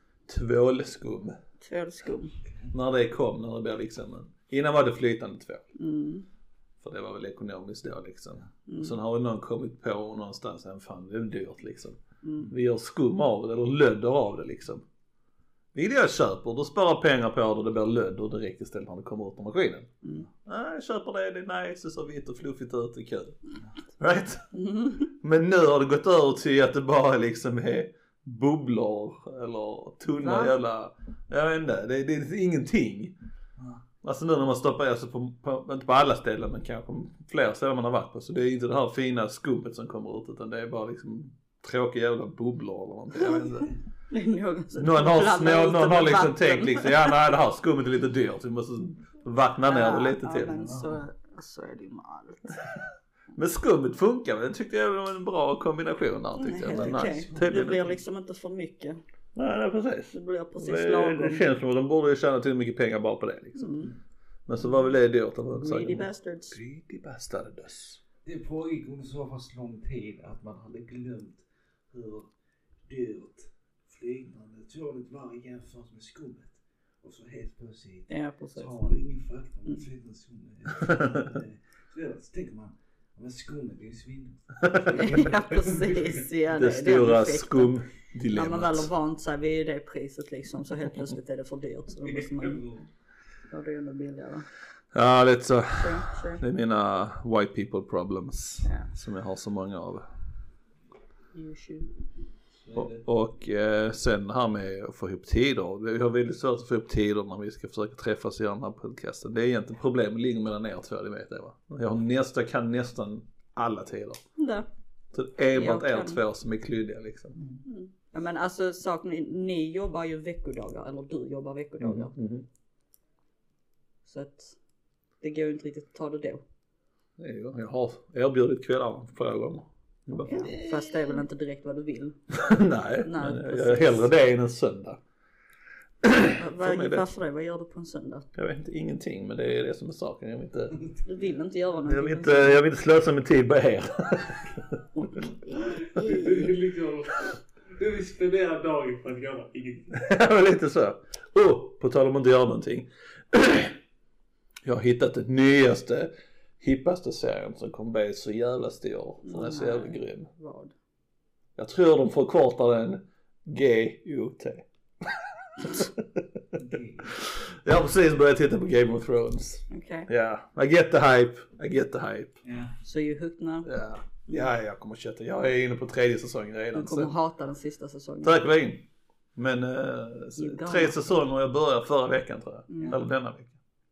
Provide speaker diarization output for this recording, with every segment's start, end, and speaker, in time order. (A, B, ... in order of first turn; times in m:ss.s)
0:00.3-0:01.4 A
0:01.6-0:02.4 B
0:02.7-0:05.6 A
0:05.8-0:06.3 B
0:06.8-0:14.8 A
0:08.7-0:08.9 B
0:12.2-0:12.5 B
0:15.8-0:19.9 A
0:20.4-0:23.4 A
0:24.0-0:24.4 A
0:24.5-0:25.1 B
0:25.1-0:33.2 A
0:30.2-0:30.6 B
0:33.6-0:33.8 C
0:34.0-0:43.7 A
0:43.2-0:47.2 B
0:44.8-0:50.6 A
0:49.7-0:52.6 B
0:50.5-0:51.0 C
0:52.5-0:52.8 A
0:53.3-0:57.8 A
0:56.4-0:59.0 B
0:56.6-0:57.9 C
0:59.4-1:03.9 A
1:00.1-1:01.5 B
1:03.6-1:03.9 B
1:04.5-1:08.0 A
1:05.6-1:06.6 B
1:08.2-1:12.3 C
1:12.9-1:26.2 C
1:18.1-1:19.0 B
1:20.8-1:21.2 A
1:24.6-1:25.3 A
1:24.9-1:27.8 B
1:26.5-1:28.9 A
1:28.3-1:32.6 B
1:32.0-1:32.9 C
1:33.5-1:34.5 B
1:34.9-1:40.1 A
1:35.8-1:36.4 B
1:38.6-1:38.9 B
1:41.3-1:41.9 B
1:42.6-1:43.0 C
1:42.7-1:54.2 A
1:54.4-1:54.7 B
1:55.1-1:57.4 A
1:55.5-1:56.2 B
1:57.6-2:02.1 B
2:01.8-2:02.5 A
2:04.0-2:04.6 B
2:05.2-2:06.4 B
2:07.2-2:11.2 A
2:10.2-2:12.2 B
2:12.3-2:15.0 A
2:13.0-2:14.1 B
2:16.0-2:17.0 A
2:16.4-2:18.3 B
2:18.4-2:20.8 A
2:20.8-2:21.0 C
2:21.1-2:22.6 B
2:21.8-2:25.3 A
2:25.0-2:26.5 B
2:25.9-2:29.9 C
2:25.9-2:26.4 A
2:29.9-2:33.8 A
2:34.6-2:40.3 A
2:39.2-2:40.7 B
2:41.6-2:52.4 A
2:46.6-2:47.2 C
2:49.7-2:50.1 B
2:52.4-2:52.8 C
2:52.8-2:53.7 B
2:53.6-2:57.1 A
2:56.7-2:58.4 B
2:58.2-3:03.6 A
3:00.4-3:01.0 B
3:02.7-3:03.0 B